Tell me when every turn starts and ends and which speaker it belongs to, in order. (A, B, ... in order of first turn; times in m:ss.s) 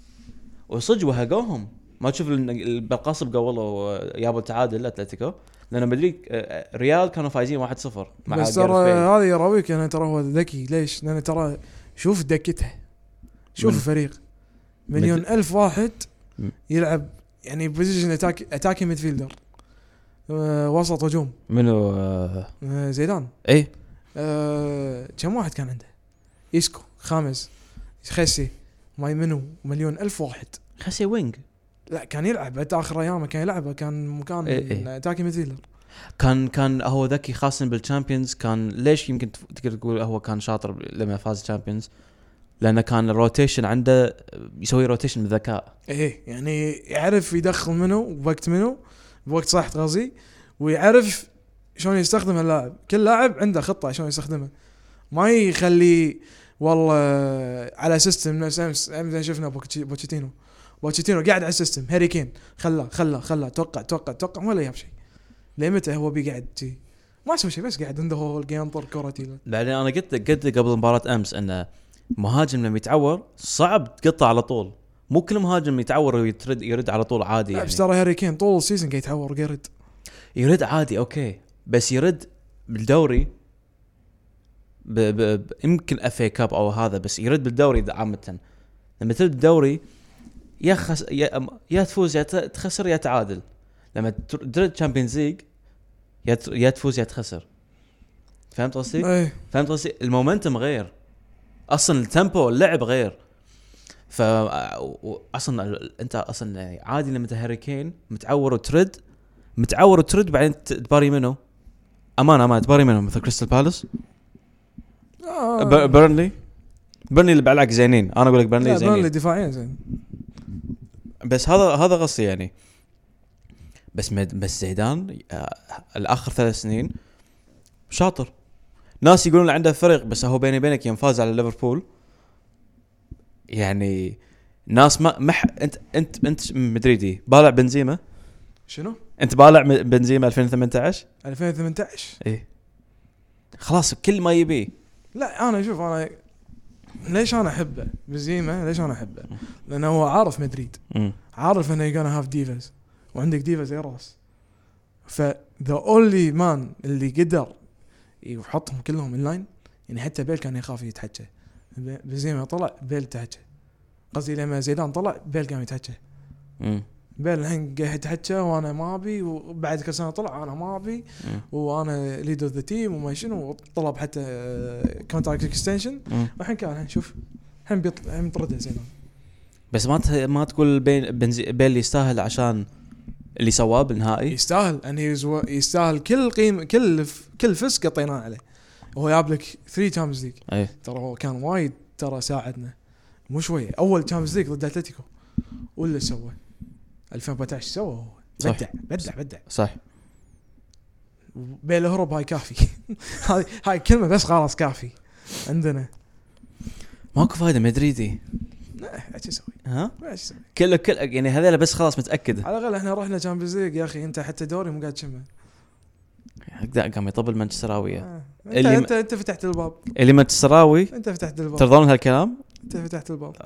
0:00.7-0:09.1 A
0:08.2-0:12.8 B
0:13.5-0:14.2 B
0:13.6-0:13.9 A
0:14.9-0:19.5 B
0:15.0-0:15.2 A
0:20.3-0:21.4 B
0:21.5-0:22.5 A
0:22.6-0:23.3 B
0:23.4-0:23.7 A
0:24.1-0:25.9 B
0:26.5-0:30.6 B
0:30.8-0:31.4 A
0:31.9-0:35.6 B
0:34.5-0:34.9 A
0:36.2-0:41.9 A
0:42.6-0:45.7 A
0:45.9-0:54.5 B
0:55.1-1:04.9 B
1:05.6-1:09.4 B
1:09.4-1:17.8 A
1:17.5-1:19.7 B
1:20.4-1:23.3 A
1:24.8-1:28.4 A
1:29.0-1:29.8 A
1:30.6-1:33.4 A
1:33.9-1:35.4 A
1:36.2-1:37.4 A
1:38.5-1:40.9 A
1:39.0-1:39.4 B
1:41.7-1:43.2 A
1:44.1-1:49.0 A
1:49.6-1:51.4 A
1:52.2-1:53.8 A
1:55.2-1:56.0 B
1:55.6-1:56.3 A
1:57.1-1:59.1 A
1:58.6-1:59.8 B
2:01.2-2:02.5 A
2:03.9-2:06.9 A
2:07.9-2:08.3 A
2:09.0-2:11.8 A
2:13.5-2:18.0 A
2:18.7-2:19.0 B
2:19.2-2:21.0 A
2:21.2-2:22.2 B
2:23.6-2:24.7 A
2:25.1-2:26.2 B
2:27.0-2:30.8 B
2:30.9-2:31.2 A
2:31.3-2:34.2 B
2:35.1-2:37.6 B
2:38.2-2:43.4 B
2:44.1-2:46.0 B
2:46.6-2:46.8 A
2:47.2-2:58.9 B
2:59.7-3:02.7 A
3:03.4-3:04.4 A
3:04.3-3:08.4 B
3:09.0-3:12.8 B
3:13.3-3:15.1 B
3:15.8-3:16.4 B
3:17.1-3:19.4 B
3:18.4-3:19.8 A
3:21.4-3:25.9 B
3:27.1-3:28.2 A
3:28.8-3:30.4 B
3:29.6-3:29.9 A
3:30.5-3:32.5 A
3:32.4-3:35.3 B
3:36.5-3:38.9 A
3:38.0-3:39.8 B
3:39.9-3:40.9 A
3:40.9-3:41.7 B
3:41.6-3:42.4 A
3:42.7-3:43.4 B